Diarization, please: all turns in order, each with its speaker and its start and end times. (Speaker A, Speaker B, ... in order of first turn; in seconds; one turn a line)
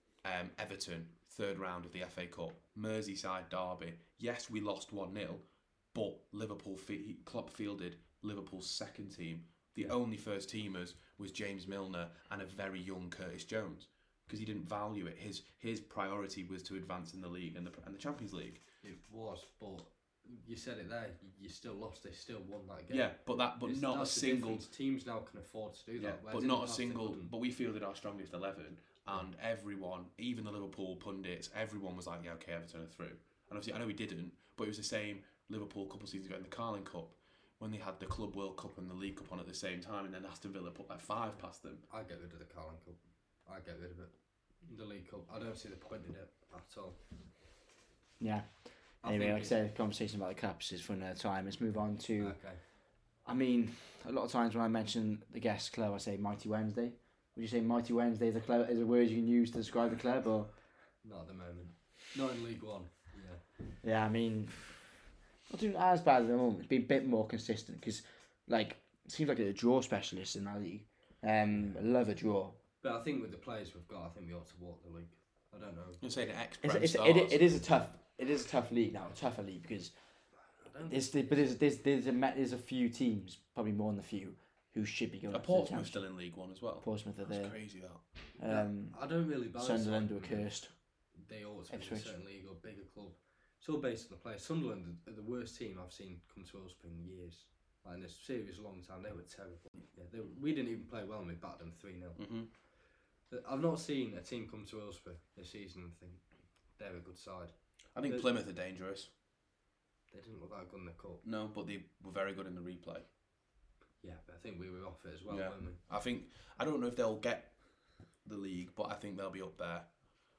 Speaker A: 0.2-18.6
Speaker B: 18.8-27.3
Speaker A: 22.9-24.6
Speaker A: 26.0-41.8
Speaker B: 41.9-47.0
Speaker C: 48.2-48.5
Speaker B: 49.0-49.5
Speaker C: 49.0-52.4
Speaker B: 52.2-52.6
Speaker C: 53.2-60.5
Speaker B: 61.0-63.4
Speaker C: 63.8-64.7
Speaker C: 65.5-72.6
Speaker B: 71.5-71.8
Speaker B: 72.8-76.0
Speaker A: 76.0-77.5
Speaker C: 76.6-79.9
Speaker B: 80.6-81.5
Speaker C: 80.9-86.0
Speaker A: 85.3-88.0
Speaker C: 86.8-87.5
Speaker B: 88.4-90.5
Speaker C: 88.4-89.0
Speaker C: 89.5-90.7
Speaker B: 91.1-102.3
Speaker C: 91.7-92.1
Speaker A: 102.2-102.5
Speaker B: 103.3-106.2
Speaker B: 106.8-108.3
Speaker A: 107.9-109.1
Speaker B: 110.1-111.2
Speaker A: 111.2-113.1
Speaker B: 114.0-115.8
Speaker A: 115.3-120.0